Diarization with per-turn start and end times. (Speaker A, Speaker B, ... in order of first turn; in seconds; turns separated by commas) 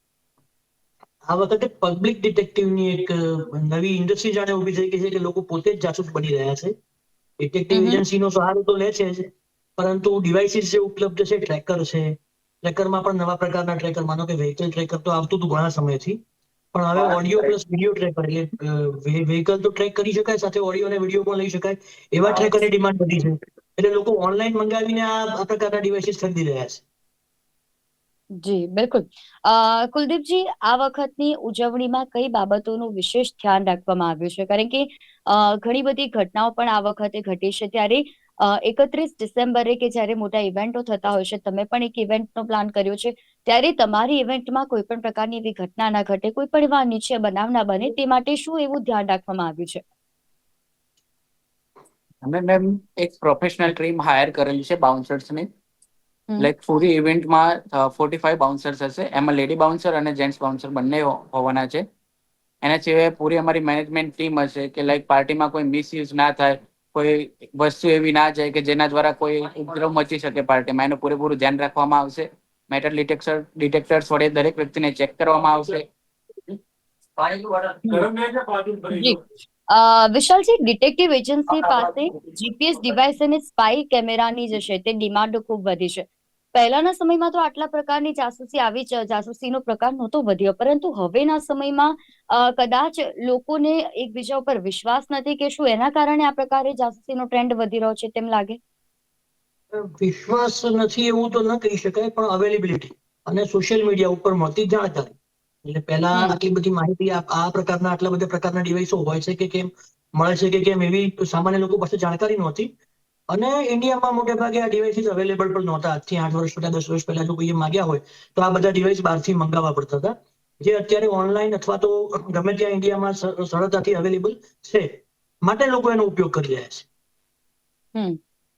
Speaker A: 1.3-6.7, Speaker A: 7.4-16.2, Speaker B: 7.7-8.0, Speaker A: 16.7-26.8, Speaker C: 17.0-17.5, Speaker C: 22.3-22.5, Speaker B: 28.4-49.8, Speaker C: 52.2-55.5, Speaker C: 56.4-61.8, Speaker C: 62.6-75.9, Speaker C: 77.2-79.1, Speaker B: 78.9-79.2, Speaker B: 79.7-98.6, Speaker C: 81.6-81.9, Speaker A: 99.7-112.7, Speaker A: 113.3-126.9